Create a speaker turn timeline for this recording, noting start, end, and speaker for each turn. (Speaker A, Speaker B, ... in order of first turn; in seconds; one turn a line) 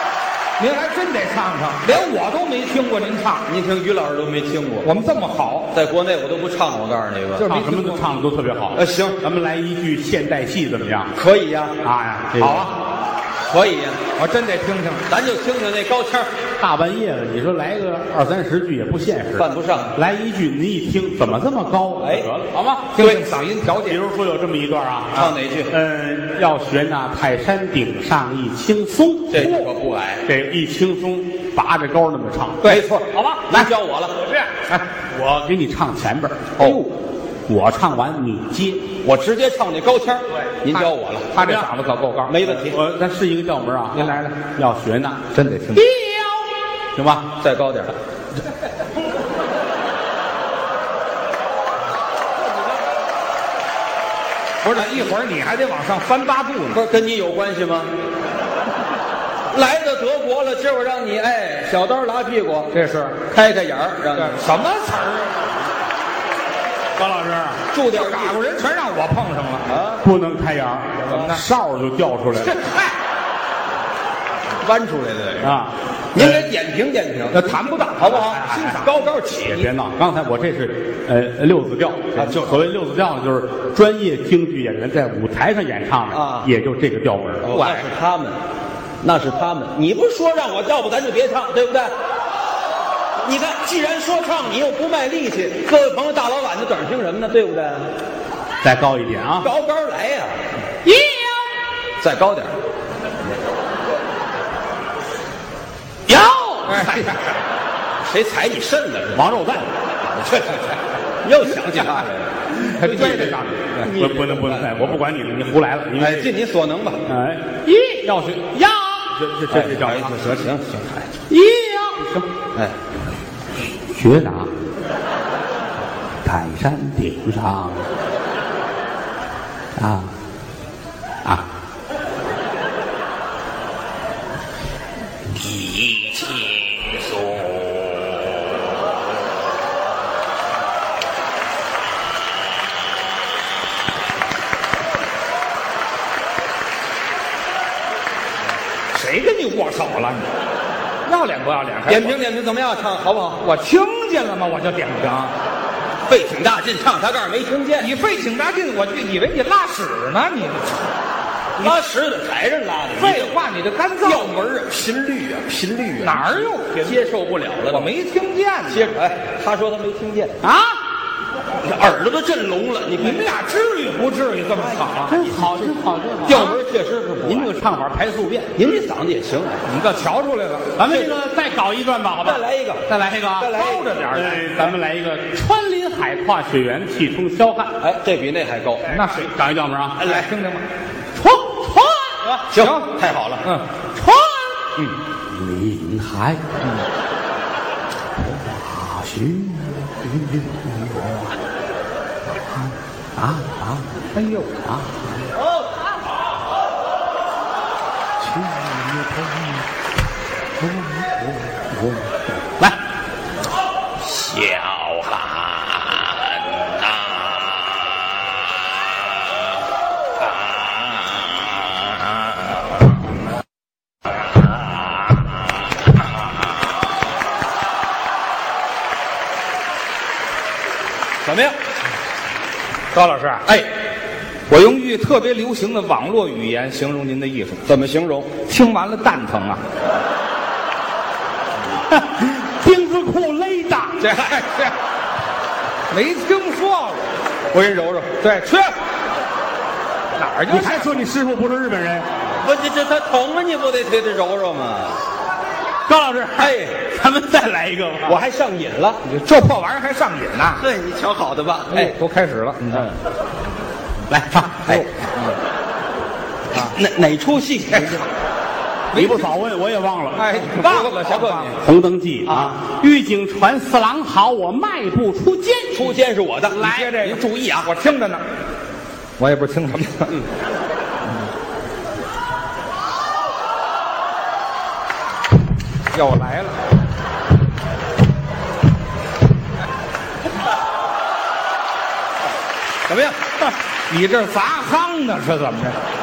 Speaker A: 0.6-3.5
Speaker B: 3.5-4.9
Speaker A: 4.8-5.7
Speaker B: 5.7-7.5
Speaker A: 7.4-8.1
Speaker C: 7.4-11.1
Speaker B: 8.7-9.2
Speaker B: 11.2-11.8
Speaker C: 11.8-12.7
Speaker A: 12.4-12.7
Speaker B: 13.4-14.0
Speaker A: 14.2-15.0
Speaker B: 15.1-16.3
Speaker C: 16.6-23.0
Speaker B: 19.4-19.9
Speaker B: 22.0-22.3
Speaker A: 22.9-24.0
Speaker B: 23.0-23.2
Speaker C: 23.8-29.6
Speaker B: 25.1-25.7
Speaker B: 29.3-30.2
Speaker C: 30.2-32.7
Speaker A: 32.6-33.6
Speaker B: 32.6-34.1
Speaker A: 34.3-34.9
Speaker C: 35.1-36.7
Speaker A: 36.6-36.9
Speaker C: 37.5-38.9
Speaker B: 39.0-41.4
Speaker A: 40.6-42.4
Speaker B: 42.3-42.8
Speaker C: 42.4-45.2
Speaker A: 43.9-44.3
Speaker A: 45.3-45.9
Speaker C: 45.8-47.3
Speaker B: 47.4-47.9
Speaker A: 54.6-56.8
Speaker B: 56.7-57.9
Speaker B: 59.5-62.7
Speaker A: 62.7-63.2
Speaker B: 63.3-64.4
Speaker A: 64.1-65.4
Speaker C: 67.0-67.6
Speaker B: 67.7-68.4
Speaker A: 67.9-69.7
Speaker B: 69.7-70.0
Speaker C: 70.0-72.5
Speaker A: 71.0-71.4
Speaker A: 72.4-72.9
Speaker B: 74.6-75.6
Speaker C: 75.4-75.7
Speaker B: 76.1-79.7
Speaker A: 77.3-78.9
Speaker C: 78.3-78.8
Speaker C: 79.4-87.6
Speaker B: 82.2-82.6
Speaker B: 86.1-86.5
Speaker B: 87.4-88.4
Speaker A: 87.5-87.9
Speaker B: 89.0-91.9
Speaker B: 93.2-97.8
Speaker C: 98.6-99.5
Speaker B: 99.4-100.4
Speaker C: 100.8-101.4
Speaker B: 102.0-102.5
Speaker C: 106.1-107.1
Speaker A: 106.7-107.0
Speaker B: 108.0-109.3
Speaker C: 109.1-109.7
Speaker B: 110.0-114.9
Speaker A: 112.7-113.8
Speaker C: 112.8-116.3
Speaker B: 116.0-117.0
Speaker C: 117.0-120.4
Speaker B: 119.5-121.1
Speaker C: 121.3-122.3
Speaker C: 123.9-124.5
Speaker C: 126.2-127.9
Speaker C: 129.8-130.1
Speaker C: 135.4-136.3
Speaker A: 148.9-150.3
Speaker A: 151.0-152.2
Speaker B: 151.9-153.4
Speaker A: 153.4-155.3
Speaker B: 156.1-157.9
Speaker A: 157.8-160.8
Speaker B: 161.6-163.4
Speaker A: 163.0-164.3
Speaker B: 164.0-167.9
Speaker A: 166.0-167.0
Speaker A: 167.7-168.9
Speaker B: 168.7-170.4
Speaker C: 170.4-170.8
Speaker B: 171.6-173.3
Speaker A: 173.0-175.2
Speaker B: 174.6-177.5
Speaker C: 175.1-176.6
Speaker C: 177.2-178.5
Speaker B: 178.6-179.7
Speaker A: 179.7-180.7
Speaker C: 180.8-183.6
Speaker B: 182.2-183.9
Speaker A: 183.5-184.5
Speaker C: 184.1-187.7
Speaker B: 187.8-188.9
Speaker A: 188.9-189.3
Speaker C: 189.1-190.0
Speaker A: 190.0-190.6
Speaker B: 190.0-190.3
Speaker C: 191.2-192.3
Speaker B: 192.5-193.4
Speaker A: 192.5-192.9
Speaker C: 194.0-194.5
Speaker C: 195.3-196.4
Speaker C: 198.2-201.3
Speaker C: 203.2-204.0
Speaker A: 204.1-204.5
Speaker C: 204.6-205.2
Speaker C: 208.2-209.7
Speaker C: 210.6-212.8
Speaker C: 214.0-215.4
Speaker B: 231.2-231.5
Speaker A: 232.9-233.5
Speaker A: 234.5-237.7
Speaker B: 237.7-238.3
Speaker A: 238.4-239.6
Speaker C: 241.9-244.1
Speaker A: 244.0-244.7
Speaker A: 245.9-247.1
Speaker B: 247.5-248.1
Speaker A: 248.2-248.7
Speaker A: 250.1-251.1
Speaker C: 250.5-252.1
Speaker B: 252.4-255.0
Speaker C: 255.9-258.1
Speaker B: 256.4-256.7
Speaker B: 258.0-259.0
Speaker A: 259.0-260.6
Speaker B: 260.6-261.9
Speaker A: 261.7-262.9
Speaker C: 264.1-264.9
Speaker A: 264.7-265.3
Speaker B: 266.6-268.1
Speaker A: 268.9-269.3
Speaker C: 268.9-270.3
Speaker A: 270.1-271.6
Speaker B: 270.4-271.5
Speaker C: 271.6-276.0
Speaker B: 275.7-277.7
Speaker A: 276.5-278.2
Speaker A: 279.2-280.1
Speaker A: 285.9-286.6
Speaker B: 292.9-293.2
Speaker A: 293.9-295.8